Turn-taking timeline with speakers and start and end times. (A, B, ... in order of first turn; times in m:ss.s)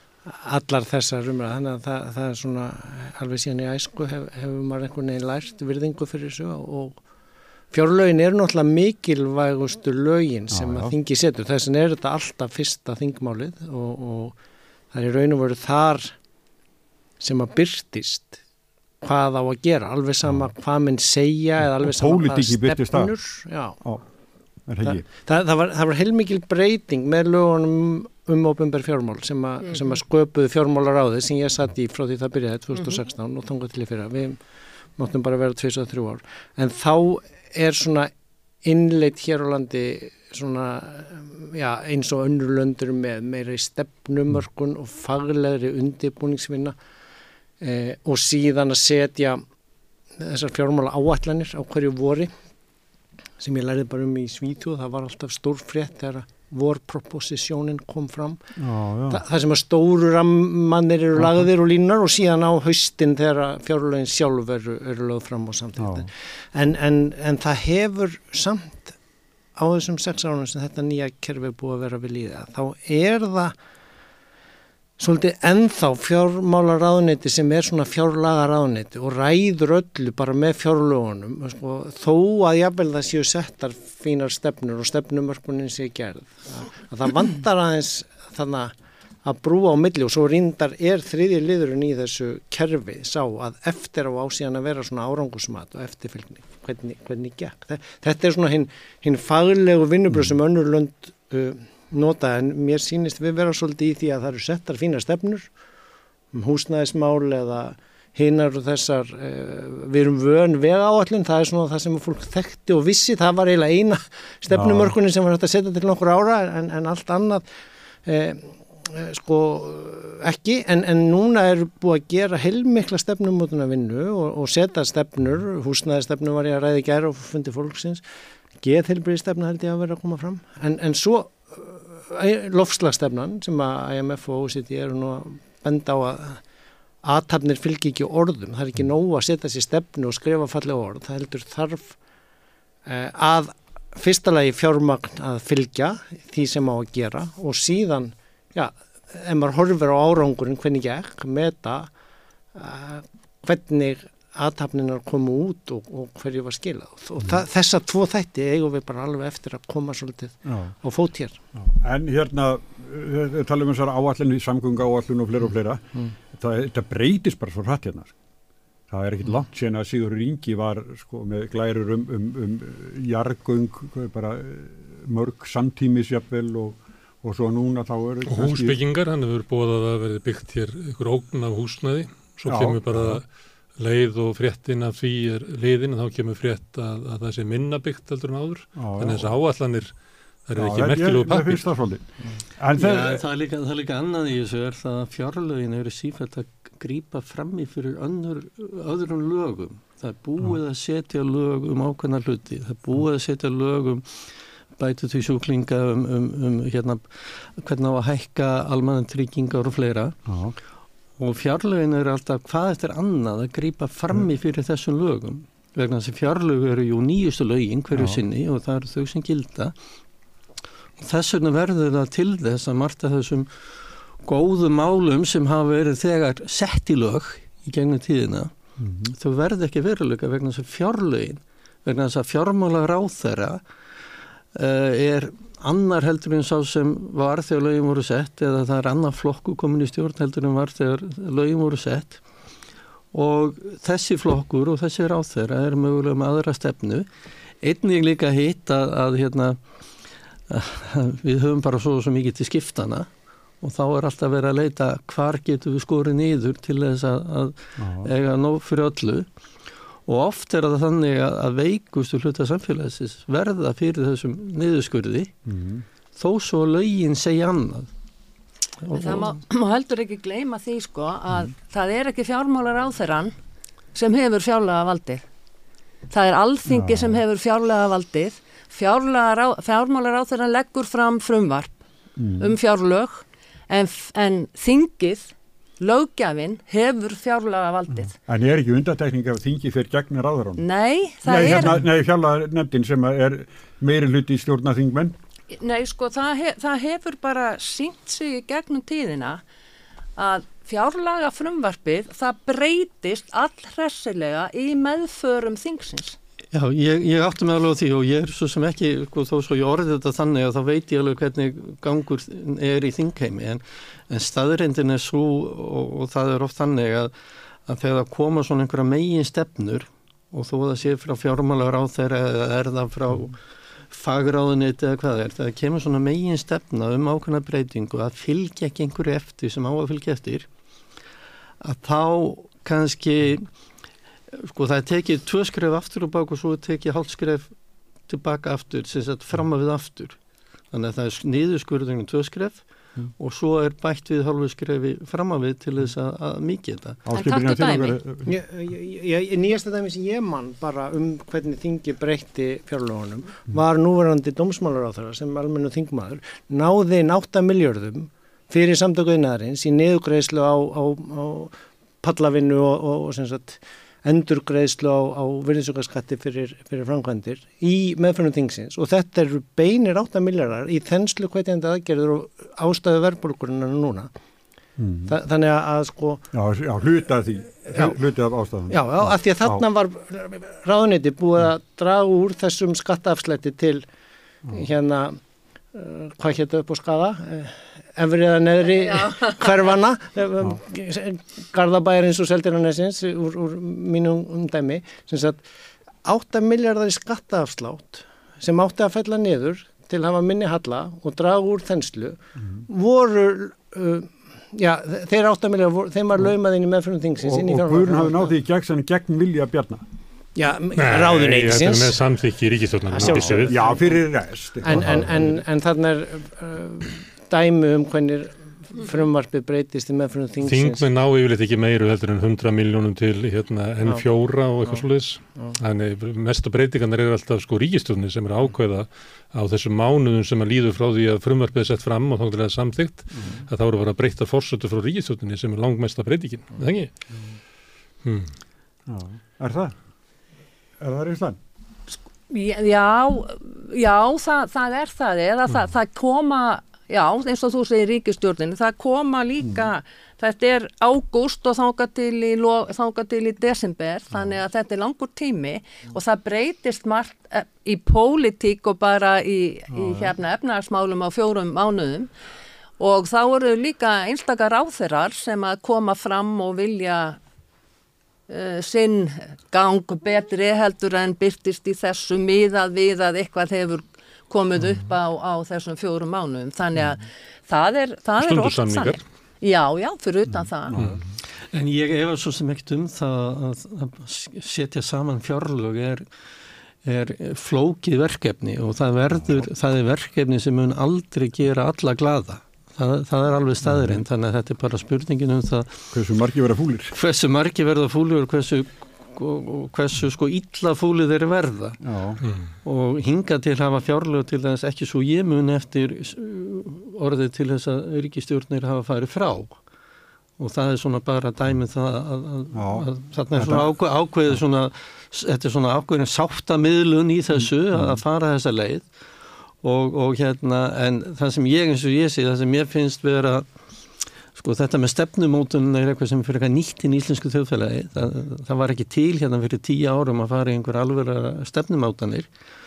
0:00.2-0:07.0 A
0:07.7-0:14.4 A
0:10.5-0:10.9 B
0:14.9-0:16.1 A
0:17.2-0:18.4 A
0:19.0-0:23.8 A
0:21.6-0:23.1 B
0:24.6-0:25.0 B
0:24.8-0:34.4 A
0:35.0-0:38.1 A
0:38.6-0:46.7 A
0:47.6-0:49.4 A
0:50.2-0:52.3 A
0:53.4-0:58.4 A
0:58.6-0:59.2 B
0:59.1-1:09.0 A
1:01.2-1:01.4 B
1:05.8-1:06.1 B
1:09.6-1:13.5 A
1:15.0-1:28.7 A
1:29.2-1:45.5 A
1:46.3-1:57.4 A
1:54.5-1:55.0 B
1:58.0-2:08.0 A
2:08.6-2:16.4 A
2:17.0-2:22.0 A
2:22.8-2:31.9 A
2:32.5-2:41.4 A
2:40.4-2:40.7 B
2:41.6-2:48.1 B
2:48.9-2:58.8 B
2:58.2-3:03.2 C
3:02.5-3:03.2 B
3:03.8-3:09.9 C
3:08.8-3:09.3 B
3:10.5-3:11.6 C
3:10.6-3:12.0 B
3:12.6-3:13.2 B
3:12.8-3:30.2 D
3:30.3-3:30.6 B
3:31.2-3:39.7 D
3:37.9-3:38.2 B
3:41.0-3:43.7 D
3:44.2-3:48.5 D
3:48.8-3:49.1 B
3:49.1-3:53.6 D
3:54.5-4:02.2 D
4:03.1-4:07.0 D
4:07.6-4:09.6 D
4:10.5-4:13.1 D
4:13.6-4:19.3 D
4:17.8-4:18.1 B
4:20.1-4:25.3 D
4:25.4-4:25.8 B
4:26.2-4:27.9 D
4:28.8-4:29.3 D
4:28.9-4:33.3 E
4:33.9-4:35.2 E
4:36.1-4:41.7 E
4:36.7-4:37.2 B
4:42.2-4:42.5 B
4:42.4-4:48.1 E
4:48.2-4:50.6 B
4:50.6-4:51.8 E
4:51.2-4:55.1 B
4:55.5-4:59.4 E
5:00.2-5:06.2 E
5:06.5-5:17.1 D
5:17.7-5:23.4 D
5:23.9-5:30.5 D
5:31.6-5:33.5 D
5:34.3-5:37.5 D
5:38.1-5:40.2 D
5:40.7-5:42.6 D
5:43.2-5:47.0 D
5:47.0-5:48.3 B
5:47.1-5:48.0 E
5:48.2-6:14.1 A
6:14.8-6:15.1 B
6:15.1-6:16.2 A
6:16.3-6:19.6 B
6:18.7-6:23.8 A
6:24.5-6:25.2 A
6:25.7-6:35.4 A
6:36.0-6:48.3 A
6:47.2-6:49.8 B
6:50.4-6:52.0 A
6:50.8-6:53.8 C
6:52.9-6:53.8 A
6:53.0-6:55.4 B
6:54.6-7:00.8 A
7:00.4-7:16.9 C
7:13.1-7:13.4 B
7:18.0-7:18.3 C
7:18.9-7:19.7 B
7:20.8-7:21.4 B
7:21.9-7:42.1 E
7:39.7-7:40.1 B
7:42.8-7:47.2 E
7:48.3-8:00.8 E
7:58.2-7:59.0 C
8:00.3-8:01.0 B
8:01.5-8:06.0 D
8:06.8-8:15.8 D
8:13.6-8:14.0 B
8:15.9-8:16.9 B
8:16.9-8:21.8 D
8:21.8-8:22.2 B
8:22.2-8:22.5 C
8:22.6-8:29.6 D
8:30.4-8:38.9 D
8:32.5-8:33.7 B
8:37.7-8:38.0 B
8:39.6-8:43.5 D
8:44.3-8:52.3 D